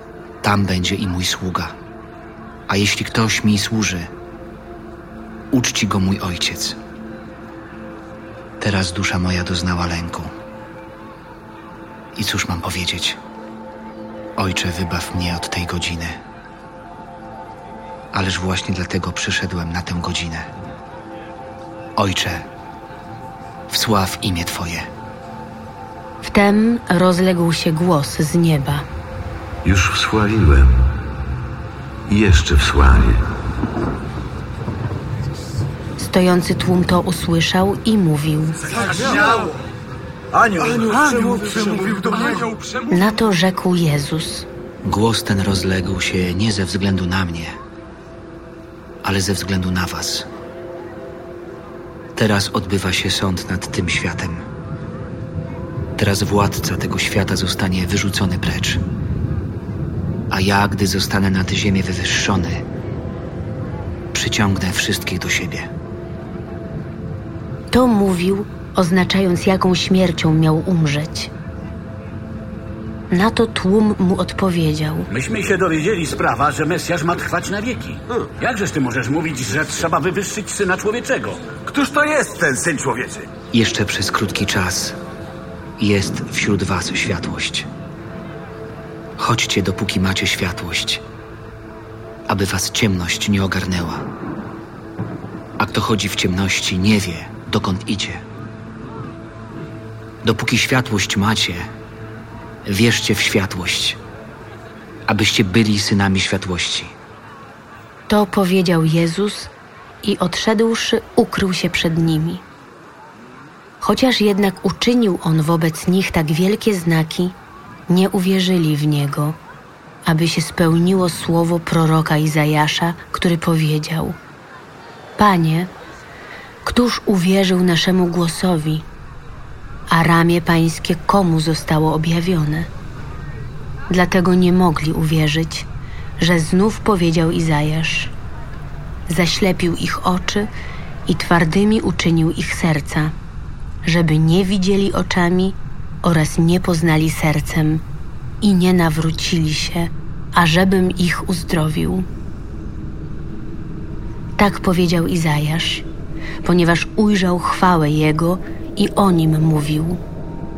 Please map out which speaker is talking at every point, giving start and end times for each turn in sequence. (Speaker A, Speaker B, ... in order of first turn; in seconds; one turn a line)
Speaker A: 0.4-1.7
Speaker A: 2.7-4.1
Speaker A: 5.5-6.8
Speaker A: 8.6-10.3
Speaker A: 12.2-13.2
Speaker A: 14.4-16.2
Speaker A: 18.1-20.5
Speaker A: 22.0-22.4
Speaker A: 23.7-24.9
Speaker B: 26.2-28.8
Speaker C: 29.6-30.8
Speaker C: 32.1-33.2
Speaker B: 36.0-38.7
Speaker D: 40.6-42.5
Speaker B: 42.9-44.5
Speaker A: 44.8-47.5
Speaker A: 49.0-50.2
Speaker A: 52.1-54.4
Speaker A: 56.0-58.8
Speaker A: 60.3-62.6
Speaker A: 64.1-65.7
Speaker B: 67.7-71.3
Speaker B: 73.1-75.1
Speaker E: 75.1-82.9
Speaker D: 81.7-83.2
Speaker A: 83.5-85.0
Speaker A: 85.8-87.7
Speaker A: 89.2-91.0
Speaker A: 92.3-94.1
Speaker A: 95.6-98.2
Speaker A: 100.2-101.7
Speaker A: 102.7-104.0
Speaker A: 105.1-106.9
Speaker B: 108.1-109.5
Speaker B: 110.0-112.4
Speaker B: 113.8-117.3
Speaker B: 117.9-119.3
Speaker B: 120.0-124.2
Speaker B: 125.2-125.7
Speaker B: 126.6-128.8
Speaker B: 129.9-132.7
Speaker B: 133.9-135.7
Speaker B: 136.2-138.1
Speaker B: 139.1-140.5
Speaker B: 141.1-143.1
Speaker B: 143.8-147.8
Speaker B: 148.4-152.1
Speaker B: 154.4-155.9
Speaker B: 156.4-160.0